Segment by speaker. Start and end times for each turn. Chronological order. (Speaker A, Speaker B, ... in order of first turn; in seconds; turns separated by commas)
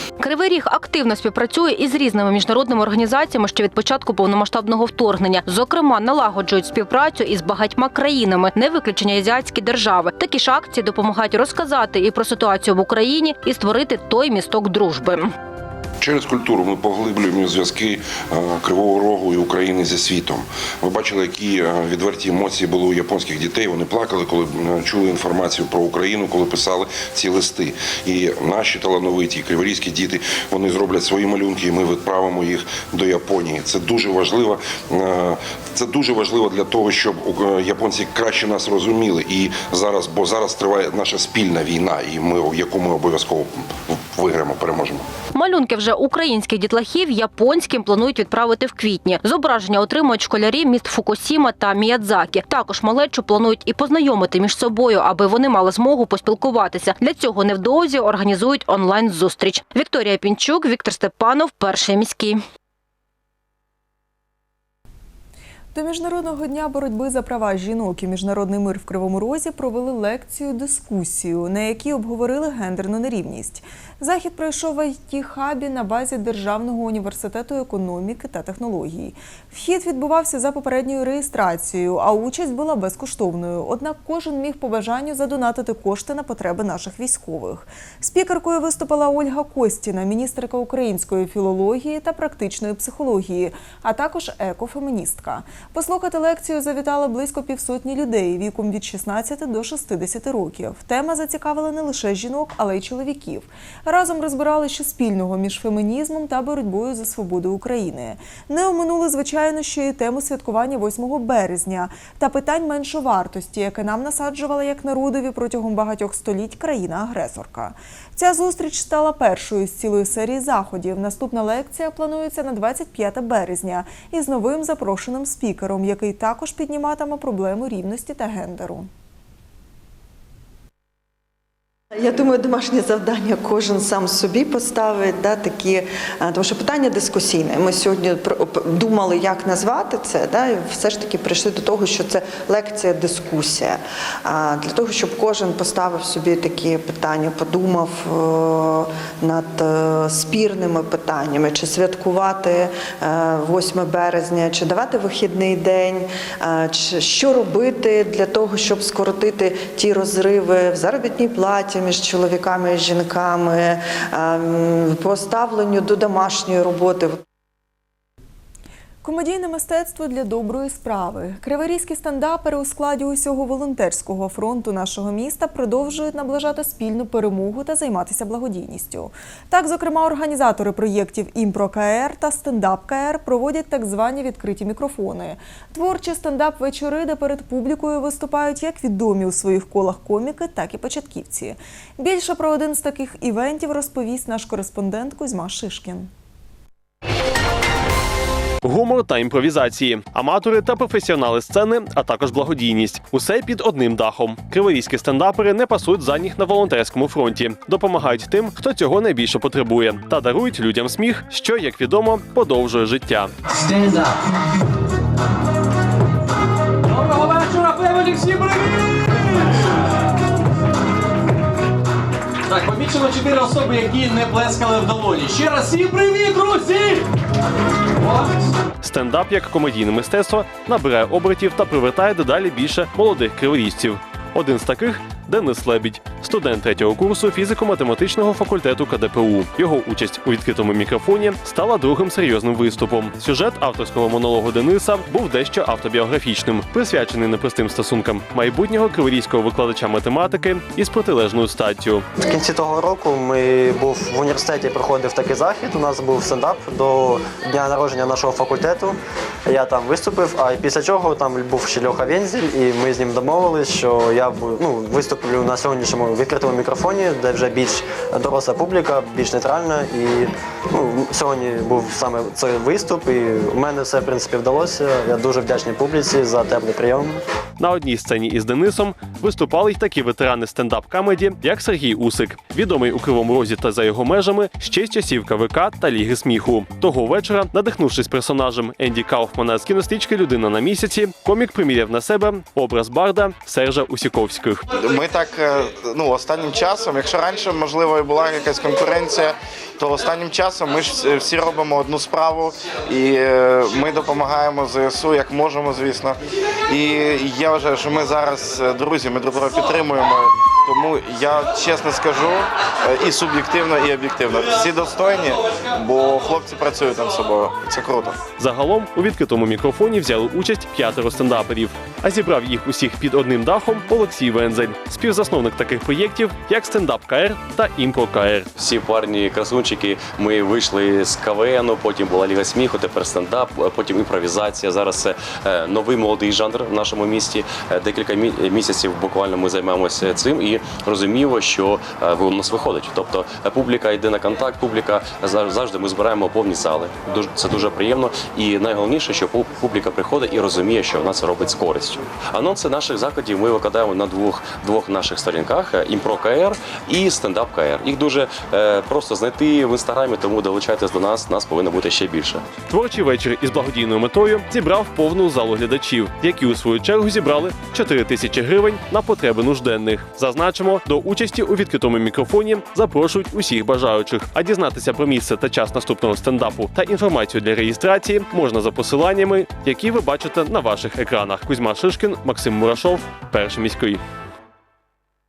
Speaker A: 0.2-15.3, Speaker B: 16.0-45.0, Speaker A: 45.3-62.4, Speaker C: 65.7-128.9, Speaker D: 132.0-167.2, Speaker C: 169.0-196.1, Speaker E: 198.6-213.3, Speaker F: 213.5-214.1, Speaker F: 216.9-219.5, Speaker F: 222.5-227.1, Speaker F: 228.0-228.3, Speaker E: 228.8-252.1, Speaker G: 252.2-277.2, Speaker E: 277.6-294.6, Speaker H: 294.8-318.2, Speaker E: 318.4-328.5, Speaker I: 328.6-362.4, Speaker E: 362.7-384.0